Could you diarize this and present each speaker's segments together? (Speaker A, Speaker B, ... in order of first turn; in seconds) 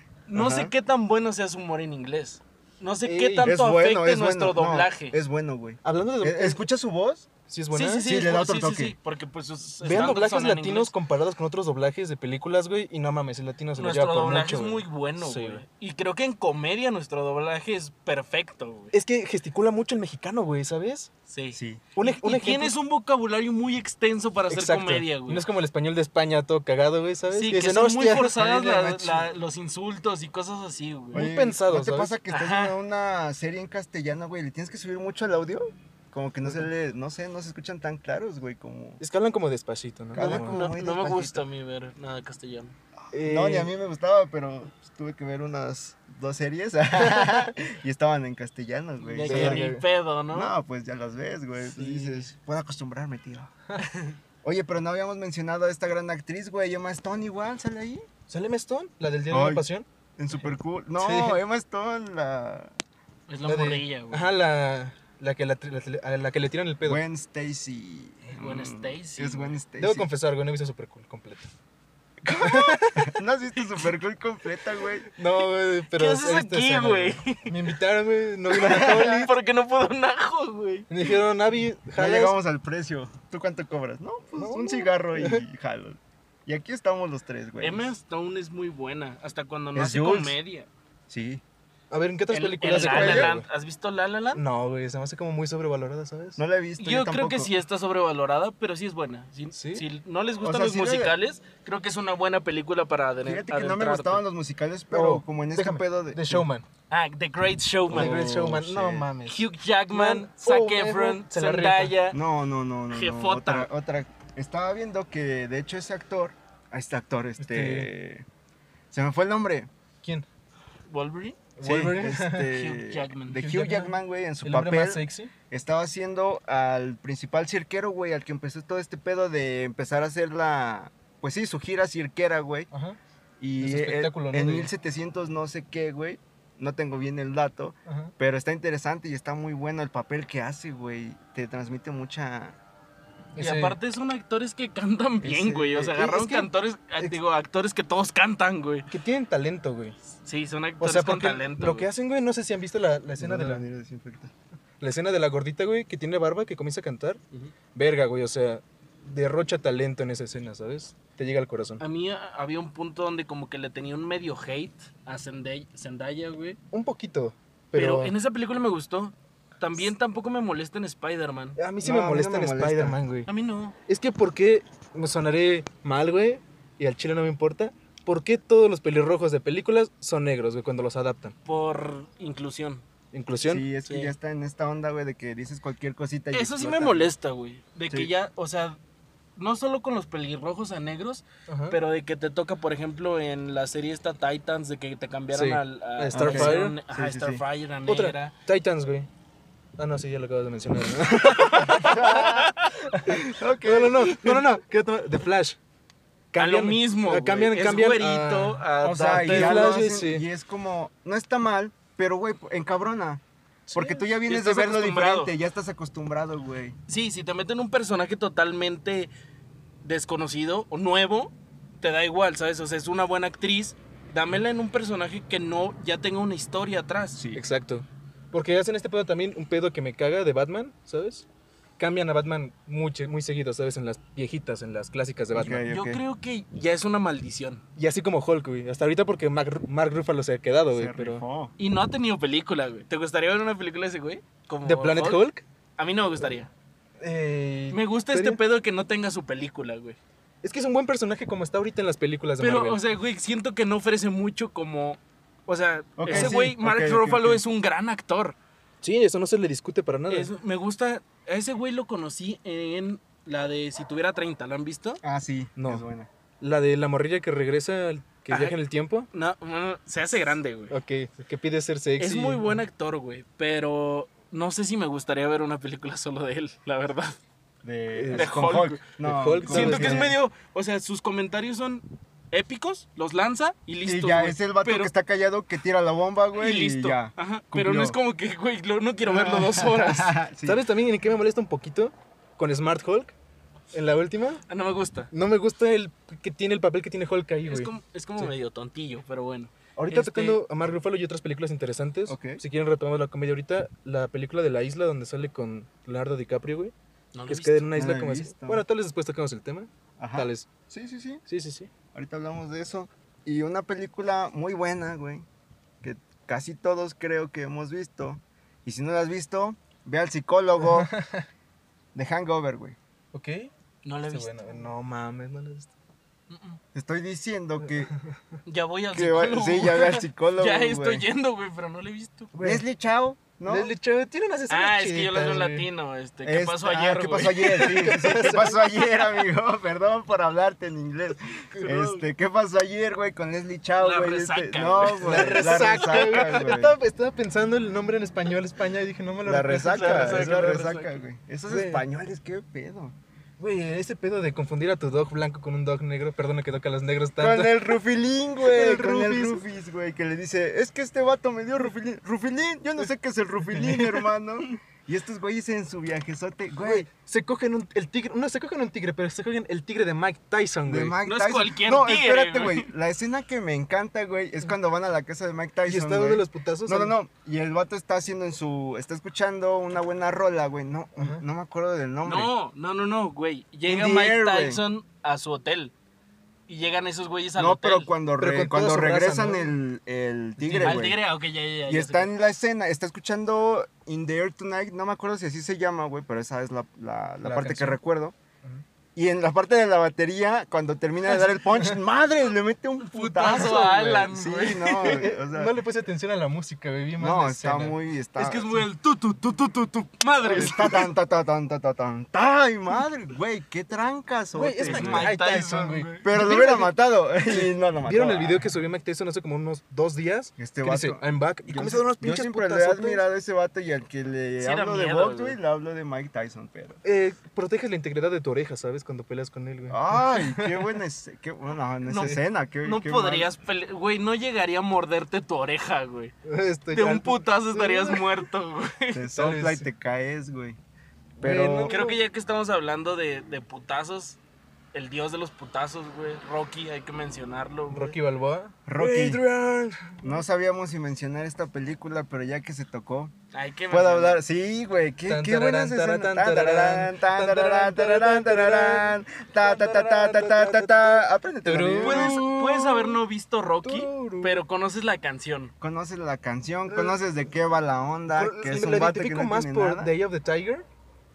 Speaker A: 0.3-5.2, 7.7-10.9, 13.8-18.9, 21.3-25.4, 27.3-31.3, 32.3-32.8, 40.2-42.8, 49.0-50.5, 51.6-52.3, 53.8-54.2, 63.3-64.3, 68.3-69.6, 73.6-73.9, 75.9-77.8, 78.5-80.9, 87.6-90.7, 92.3-94.4, 96.8-104.2, 106.9-108.3, 109.2-112.2, 112.9-113.7, 120.9-121.4, 122.5-123.5, 143.4-148.9, 150.2-151.9, 161.8-166.6, 167.7-171.6, 173.3-173.8, 181.4-182.8, 183.8-184.2, 186.3-188.8, 189.4-198.3, 201.4-202.8, 206.4-209.7, 214.2-215.3, 216.9-219.1, 219.8-227.2, 235.7-237.6, 241.6-245.2, 245.8-246.5, 247.7-250.0, 252.4-258.4, 260.1-265.0, 268.3-268.6, 269.1-270.8, 272.0-277.2, 278.1-278.8, 279.4-284.9, 286.3-290.2, 294.5-295.1, 297.5-300.4, 307.1-307.7, 323.8-324.6, 326.3-326.6, 328.5-332.3, 334.5-337.7, 341.6-342.0, 343.8-346.5, 349.7-351.0, 371.1-372.7, 382.0-385.7, 386.5-387.9, 390.6-392.1, 402.8-404.9, 408.2-410.9, 414.6-416.6, 424.4-425.4, 431.9-436.1, 436.7-439.0, 441.7-444.2, 444.7-448.0, 453.3-454.2, 461.8-465.5
Speaker B: 0.3-0.7, 3.4-7.3, 8.0-8.9, 21.6-21.8, 28.6-29.3, 31.1-39.0, 40.1-41.4, 43.2-49.7, 50.3-53.5, 54.4-58.1, 59.3-59.7, 60.2-62.7, 66.8-70.1, 72.2-75.1, 78.6-79.2, 82.0-87.9, 89.8-90.4, 91.1-91.4, 92.6-93.3, 96.4-97.5, 100.4-101.2, 103.2-106.5, 107.9-109.1, 112.1-118.3, 118.9-119.7, 121.6-132.7, 133.4-142.6, 145.2-146.0, 153.2-154.3, 171.8-173.0, 183.4-187.1, 196.1-197.4, 201.7-202.5, 203.1-204.4, 208.8-213.2, 213.7-216.8, 227.2-227.4, 235.3-236.0, 240.7-241.5, 256.0-257.4, 265.0-266.1, 277.6-280.2, 283.8-288.0, 289.0-290.6, 302.1-302.4, 307.7-308.6, 310.0-311.2, 311.9-315.3, 315.8-320.9, 321.9-322.8, 326.7-327.9, 328.9-331.1, 332.4-333.7, 336.2-346.8, 349.2-353.0, 357.2-366.9, 370.6-382.3, 383.7-384.6, 387.4-391.0, 391.7-398.1, 399.0-405.6, 407.0-408.6, 410.2-415.1, 416.0-418.5, 420.4-426.8, 429.7-433.3, 438.9-440.6, 441.2-441.8, 448.7-449.2, 450.0-453.1, 453.7-462.2, 465.6-469.9
Speaker C: 3.0-3.5, 5.8-6.7, 7.5-8.1, 9.8-15.6, 18.9-21.1, 22.0-22.7, 24.5-29.0, 31.1-32.1, 39.0-40.6, 43.1-43.7, 47.1-47.5, 49.2-49.8, 58.3-59.9, 61.0-61.4, 63.4-67.0, 69.8-71.5, 72.4-73.2, 75.1-79.3, 80.9-82.4, 84.4-85.4, 91.9-93.5, 94.3-96.4, 99.5-99.8, 104.9-106.7, 107.9-112.0, 117.4-117.9, 121.6-122.5, 123.4-125.3, 132.7-133.0, 133.6-134.7, 137.9-138.1, 143.4-143.8, 146.0-147.2, 148.9-150.0, 150.8-153.6, 154.8-157.2, 157.8-161.8, 166.7-168.1, 171.6-173.3, 173.9-181.4, 183.1-183.7, 191.5-191.8, 195.3-196.8, 197.9-199.1, 199.8-202.2, 202.9-205.6, 206.3-210.2, 213.7-214.1, 227.3-231.3, 231.8-235.6, 237.8-241.2, 244.7-245.4, 247.0-248.4, 250.4-252.8, 256.1-256.4, 258.8-260.3, 265.6-265.8, 266.4-269.1, 270.7-272.6, 277.9-278.4, 279.0-280.1, 290.4-293.1, 293.7-294.4, 295.1-298.3, 299.8-306.7, 307.3-310.5, 311.3-311.7, 320.7-321.3, 323.1-323.5, 324.1-325.7, 327.8-328.2, 332.3-332.6, 333.5-335.7, 337.3-338.6, 345.0-350.6, 351.5-351.8, 353.4-357.8, 358.4-359.4, 363.5-364.1, 366.6-371.0, 375.7-376.9, 381.0-381.2, 388.2-389.5, 390.4-390.8, 397.2-397.8, 403.3-407.8, 414.4-416.6, 417.3-423.0, 426.8-430.7, 436.2-438.2, 439.1-439.7, 441.2-442.0, 447.7-450.2, 455.1-463.0, 463.6-464.4, 466.7-467.0, 468.1-470.7